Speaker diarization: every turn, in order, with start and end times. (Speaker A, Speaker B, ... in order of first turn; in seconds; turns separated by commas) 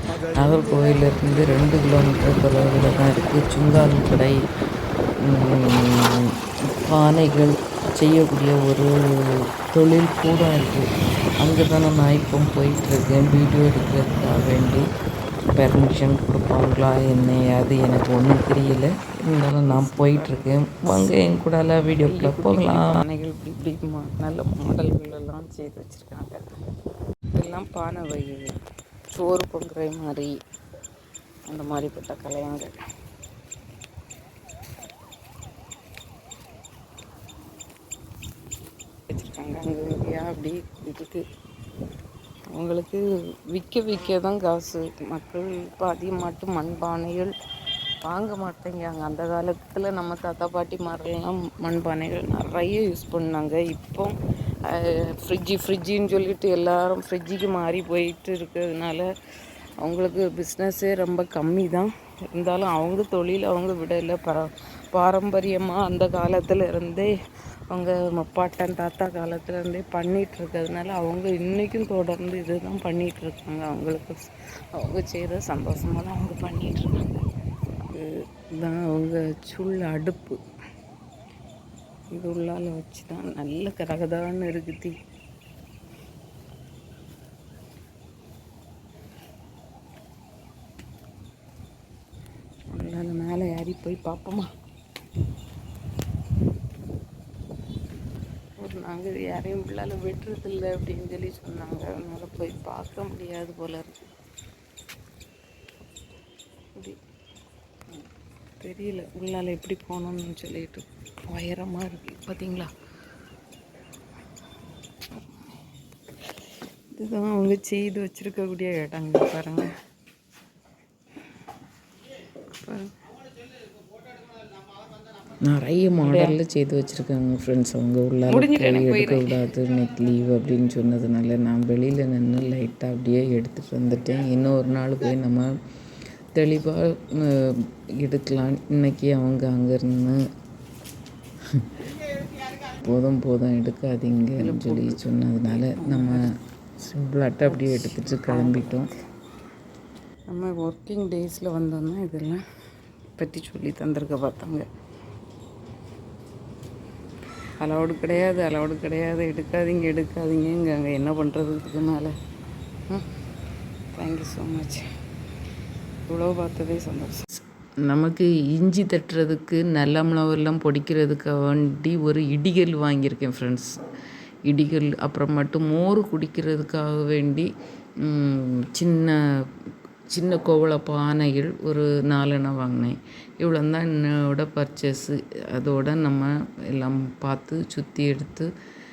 Speaker A: 0.3-4.4, Speaker A: 5.2-6.3, Speaker A: 6.9-10.8, Speaker A: 11.4-14.8, Speaker A: 15.6-22.9, Speaker B: 19.7-20.4, Speaker B: 22.1-26.4, Speaker B: 27.3-28.5, Speaker B: 29.1-30.3, Speaker B: 31.5-32.7, Speaker B: 39.1-41.2, Speaker B: 42.5-47.3, Speaker B: 48.0-54.1, Speaker B: 54.7-59.0, Speaker B: 59.8-67.1, Speaker B: 67.7-74.2, Speaker B: 74.7-77.2, Speaker B: 78.6-80.4, Speaker B: 82.1-84.9, Speaker B: 92.7-94.5, Speaker B: 98.6-104.1, Speaker B: 108.6-112.7, Speaker B: 116.9-119.7, Speaker B: 122.6-122.9, Speaker A: 125.4-135.5, Speaker B: 126.0-126.4, Speaker B: 128.3-129.4, Speaker A: 136.3-140.2, Speaker A: 142.7-146.2, Speaker B: 144.4-146.2, Speaker A: 146.8-148.9, Speaker B: 147.4-148.9, Speaker B: 150.3-152.4, Speaker B: 153.2-154.7, Speaker B: 157.6-162.1, Speaker B: 163.9-164.8, Speaker B: 166.1-167.2, Speaker A: 167.8-173.7, Speaker A: 174.5-177.5, Speaker A: 178.0-179.2, Speaker A: 180.1-188.5